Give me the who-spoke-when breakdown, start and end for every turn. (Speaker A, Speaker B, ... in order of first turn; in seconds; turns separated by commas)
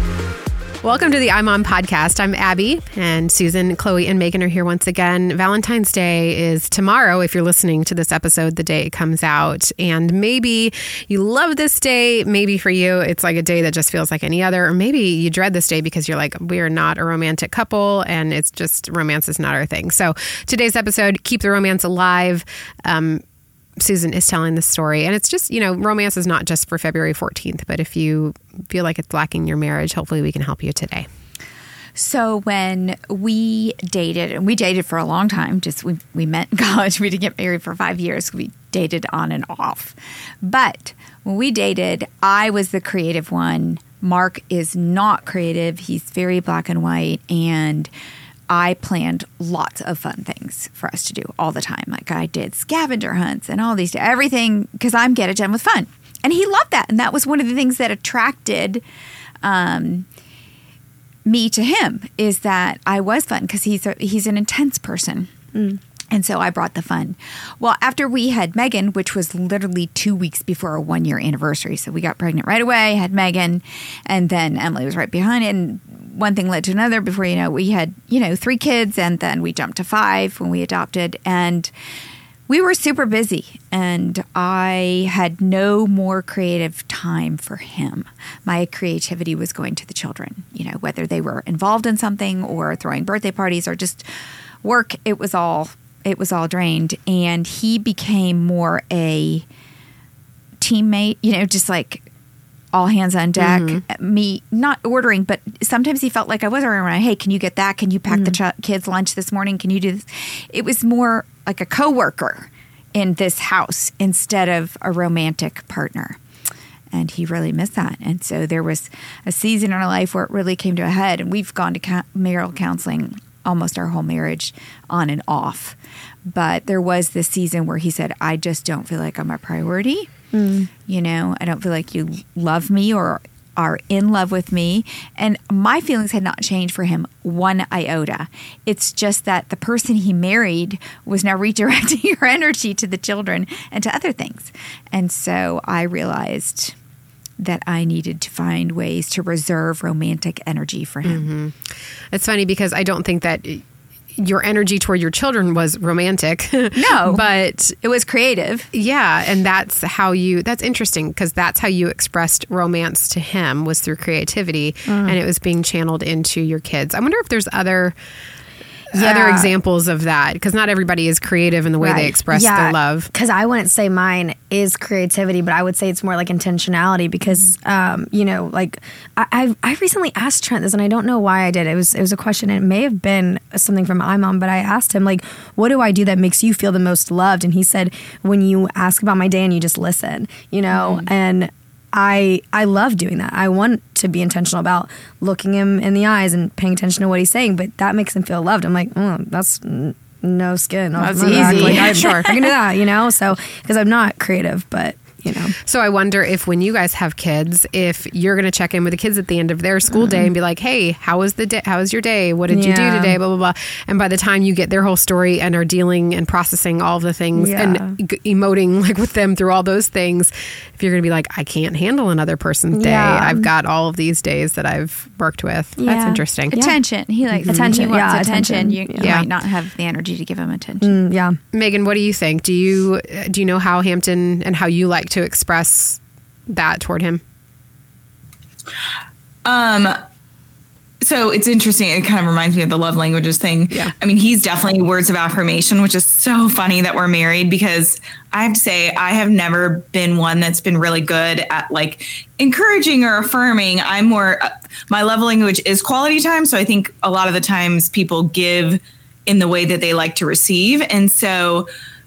Speaker A: 0.8-23.2, Speaker A: 23.8-31.1, Speaker B: 31.9-47.9, Speaker B: 48.5-58.8, Speaker B: 59.4-60.0, Speaker B: 61.2-65.3, Speaker B: 66.1-81.7, Speaker B: 82.5-94.1, Speaker B: 94.6-99.5, Speaker B: 100.6-102.1, Speaker B: 102.7-116.2, Speaker A: 103.4-103.8, Speaker C: 108.1-108.4, Speaker B: 116.9-130.1, Speaker C: 130.3-130.7, Speaker B: 130.8-146.8, Speaker B: 147.4-151.3, Speaker A: 151.0-153.6, Speaker A: 154.1-157.7, Speaker B: 156.7-158.7, Speaker A: 158.7-167.9, Speaker C: 164.9-165.2, Speaker A: 168.9-173.1, Speaker C: 168.9-169.5, Speaker C: 171.8-205.6, Speaker A: 190.8-191.0, Speaker A: 201.1-202.6, Speaker D: 201.2-201.9, Speaker B: 201.2-202.1, Speaker A: 205.6-226.6, Speaker C: 212.5-213.2, Speaker C: 217.3-218.0, Speaker C: 222.7-223.5, Speaker C: 225.8-226.8, Speaker B: 226.5-230.9, Speaker C: 227.3-229.2, Speaker A: 227.4-227.8, Speaker A: 229.0-229.3, Speaker C: 230.8-231.4, Speaker A: 231.5-237.2, Speaker D: 239.4-240.0, Speaker D: 241.0-261.7